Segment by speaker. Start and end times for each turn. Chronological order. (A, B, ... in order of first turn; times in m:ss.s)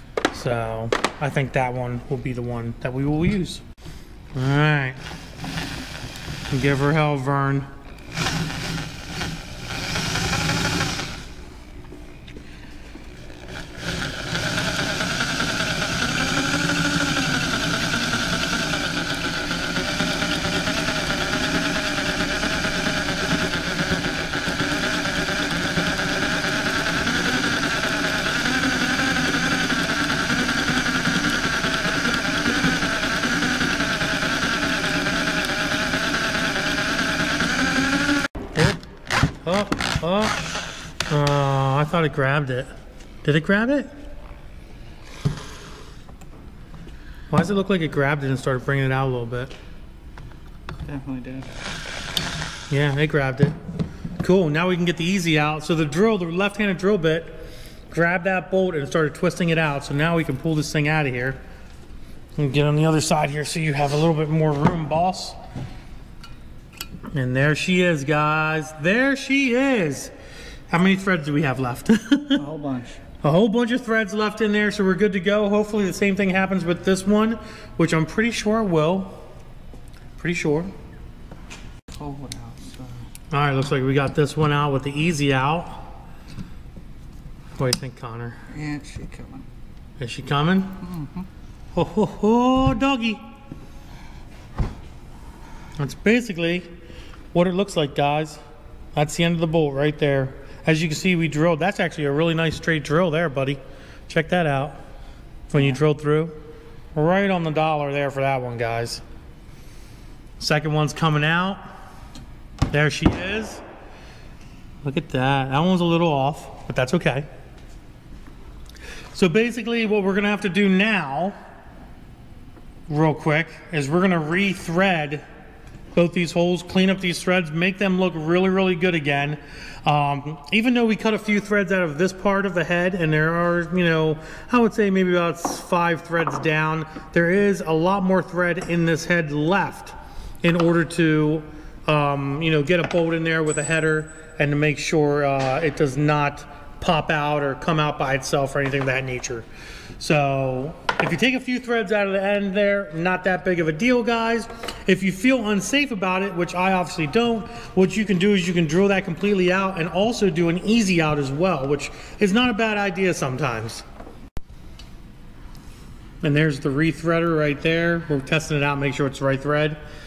0:00.3-0:03.6 A
0:04.3-0:05.0 A
0:06.5-0:07.7 A
0:38.5-0:38.8 A
0:39.4-0:40.4 A
0:41.1-0:42.7 A
0:43.2-0:43.9 A
0:47.3-0:49.5 A
0:50.8-0:51.5 B
0:52.7-0:53.6 A
0:54.2-1:01.4 A
1:02.4-1:05.4 A
1:07.1-1:10.1 A
1:10.7-1:12.4 A
1:12.4-1:13.0 B
1:13.2-1:19.2 A
1:20.2-1:20.7 A
1:21.9-1:23.0 B
1:23.3-1:25.8 A
1:27.6-1:28.4 A
1:28.5-1:29.5 B
1:30.0-1:30.8 A
1:30.8-1:31.3 B
1:31.7-1:33.2 A
1:35.8-1:36.7 A
1:37.3-1:38.4 A
1:38.9-1:44.8 A
1:45.5-1:46.3 A
1:45.5-1:45.8 B
1:46.9-1:49.0 A
1:50.4-1:51.6 A
1:52.7-1:53.6 A
1:54.8-1:57.3 A
1:59.1-2:01.4 A
2:02.9-2:05.2 A
2:05.9-2:29.5 A
2:30.0-2:43.8 A
2:46.2-2:49.8 A